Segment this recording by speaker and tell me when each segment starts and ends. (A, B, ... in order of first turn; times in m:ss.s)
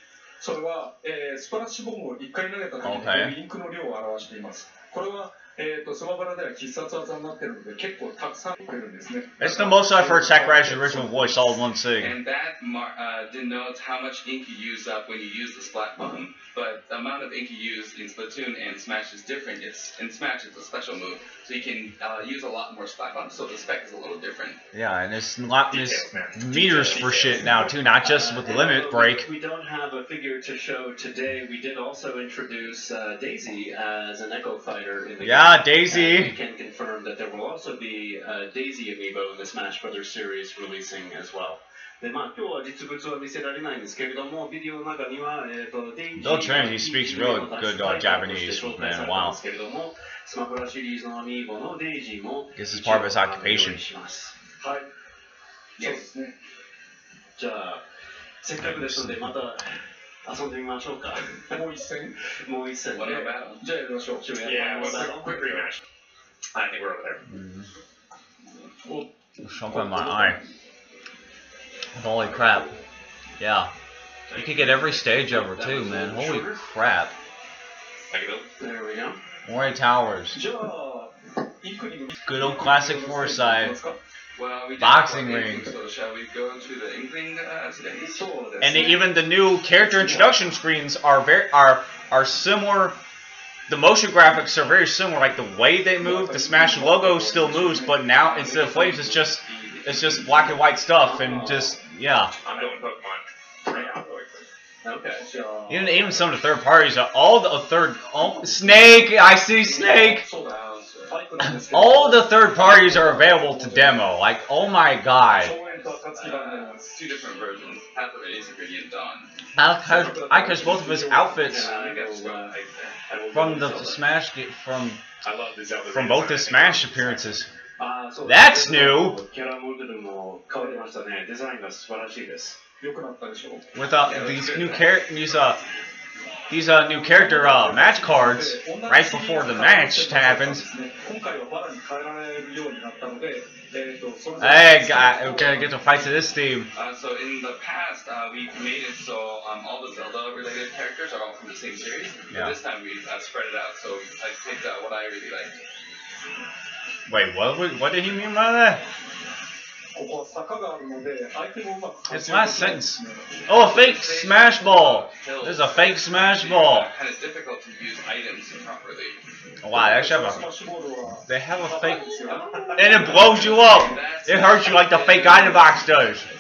0:00.4-0:11.5 A
0:02.8-0:03.4 B
0:09.4-0:12.2 B
0:12.0-0:24.6 C
0:24.7-0:29.3 B
0:25.7-0:27.8 D
0:28.0-0:54.3 E
0:35.2-0:36.3 B
0:46.2-0:49.4 B
0:52.6-0:53.8 B
0:54.6-0:54.9 A
0:55.8-0:56.3 A
0:57.4-0:57.8 E
0:58.4-0:59.6 E
0:58.6-0:59.4 B
1:00.2-1:01.6 E
1:01.5-1:02.2 A
1:02.3-1:03.3 E
1:02.9-1:03.6 C
1:03.2-1:04.9 A
1:04.2-1:05.7 E
1:04.4-1:05.8 D
1:06.5-1:07.2 D
1:07.3-1:07.7 B
1:09.4-1:10.4 B
1:09.7-1:10.3 E
1:12.0-1:12.8 B
1:13.4-1:13.7 B
1:14.3-1:16.6 E
1:14.3-1:17.1 B
1:18.1-1:18.5 D
1:18.6-1:19.2 E
1:19.4-1:20.4 B
1:20.3-1:24.0 A
1:22.2-1:23.7 B
1:24.4-1:28.3 C
1:24.8-1:25.7 B
1:27.9-1:30.4 A
1:28.6-1:33.0 B
1:33.7-1:42.3 B
1:36.0-1:38.8 A
1:38.2-1:40.6 C
1:40.9-1:41.8 E
1:42.4-1:44.4 D
1:42.4-1:42.8 A
1:44.8-1:45.4 E
1:45.1-1:46.4 A
1:45.7-1:50.2 B
1:48.4-1:54.1 A
1:51.4-1:55.5 B
1:55.3-1:57.0 A
1:55.4-1:59.3 C
1:59.6-2:01.7 B
1:59.8-2:01.4 A
2:00.9-2:04.1 E
2:01.5-2:02.9 D
2:03.3-2:05.0 B
2:05.2-2:07.5 D
2:05.9-2:07.5 B
2:07.8-2:12.6 E
2:08.2-2:09.2 B
2:10.5-2:10.9 A
2:12.8-2:13.7 A
2:13.7-2:15.6 B
2:14.0-2:15.0 C
2:16.5-2:20.7 B
2:16.6-2:25.8 A
2:24.4-2:26.7 B
2:26.7-2:35.6 C
2:37.1-2:38.8 B
2:39.9-2:43.5 A
2:42.1-2:46.9 B
2:43.5-2:49.2 C
2:49.6-2:50.4 B
2:49.6-2:53.9 A
2:51.3-2:52.2 B
2:52.3-2:52.6 E
2:52.7-2:56.3 B
2:52.8-2:55.9 C